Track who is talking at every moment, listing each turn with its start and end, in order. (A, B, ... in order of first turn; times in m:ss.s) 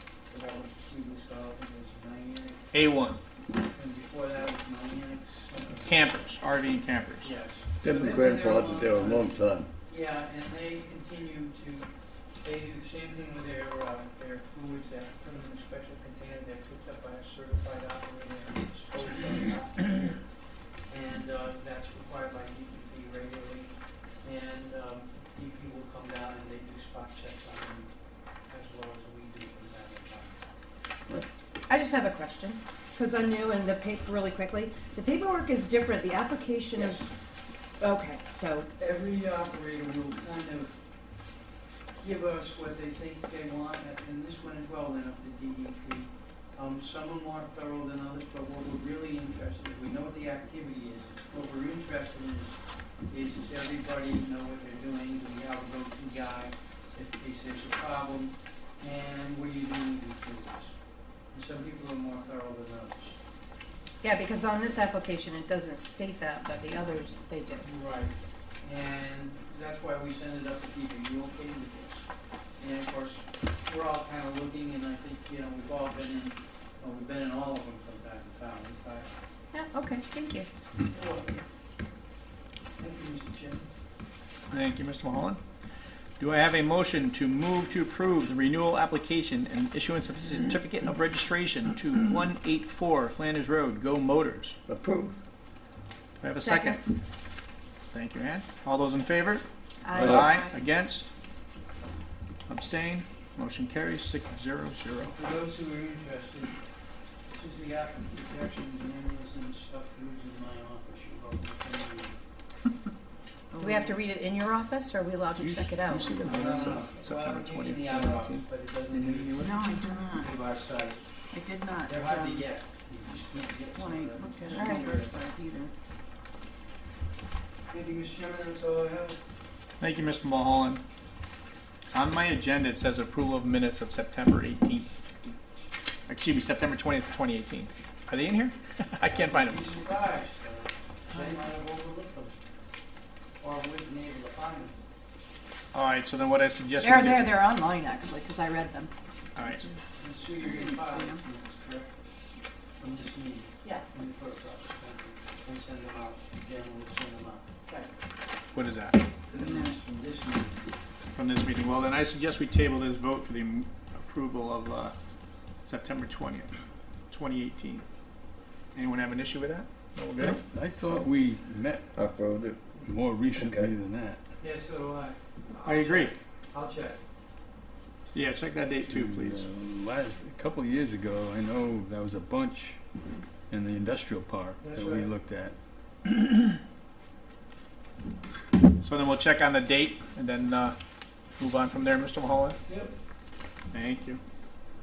0:00.3-0:02.7 A
0:02.7-0:03.2 B
0:03.6-0:06.0 A
0:05.8-0:07.3 B
0:07.2-0:20.2 A
0:07.8-0:09.7 C
0:20.9-0:27.9 A
0:28.5-0:30.4 A
0:31.7-0:37.1 D
0:36.7-0:37.0 A
0:37.8-0:38.7 D
0:38.8-0:40.8 A
0:42.0-1:00.8 A
1:01.3-1:03.2 A
1:04.0-1:07.7 D
1:07.6-1:19.1 A
1:19.5-1:20.5 D
1:20.8-1:21.4 A
1:22.8-1:23.7 A
1:24.5-1:25.4 B
1:26.2-1:34.6 B
1:34.7-1:35.2 C
1:36.2-1:36.8 B
1:36.3-1:36.8 D
1:37.9-1:41.1 B
1:39.8-1:40.1 D
1:40.0-1:40.3 C
1:40.1-1:40.6 E
1:42.5-1:45.2 B
1:45.1-1:46.6 A
1:47.3-1:52.1 A
1:53.5-1:54.0 E
1:53.6-1:56.3 D
1:55.4-1:59.6 B
1:56.2-2:01.0 A
1:59.4-2:00.3 E
2:01.3-2:02.5 E
2:01.8-2:05.2 A
2:03.7-2:05.7 E
2:04.5-2:04.8 D
2:07.7-2:09.2 A
2:09.8-2:10.8 B
2:11.9-2:14.9 B
2:16.1-2:19.6 B
2:19.1-2:22.4 A
2:21.1-2:21.5 E
2:23.4-2:24.8 A
2:25.7-2:27.3 B
2:26.8-2:28.9 D
2:29.4-2:29.6 B
2:30.0-2:31.9 A
2:30.4-2:31.2 E
2:32.8-2:37.5 A
2:38.5-2:39.0 B
2:39.3-2:40.0 E
2:39.3-2:40.6 A
2:41.1-2:45.0 B
2:45.6-2:46.5 B
2:47.1-2:47.8 B
2:48.7-2:50.4 B
2:50.1-2:51.9 F
2:51.9-2:52.6 C
2:52.8-2:54.2 F
2:53.3-2:53.7 C
2:54.4-2:57.0 A
2:55.6-2:56.1 B
2:58.1-2:59.4 B
2:58.9-3:02.8 F
3:03.5-3:05.6 F
3:04.6-3:05.1 A
3:08.8-3:10.8 B
3:11.4-3:12.6 B
3:12.7-3:12.9 A
3:13.7-3:14.2 B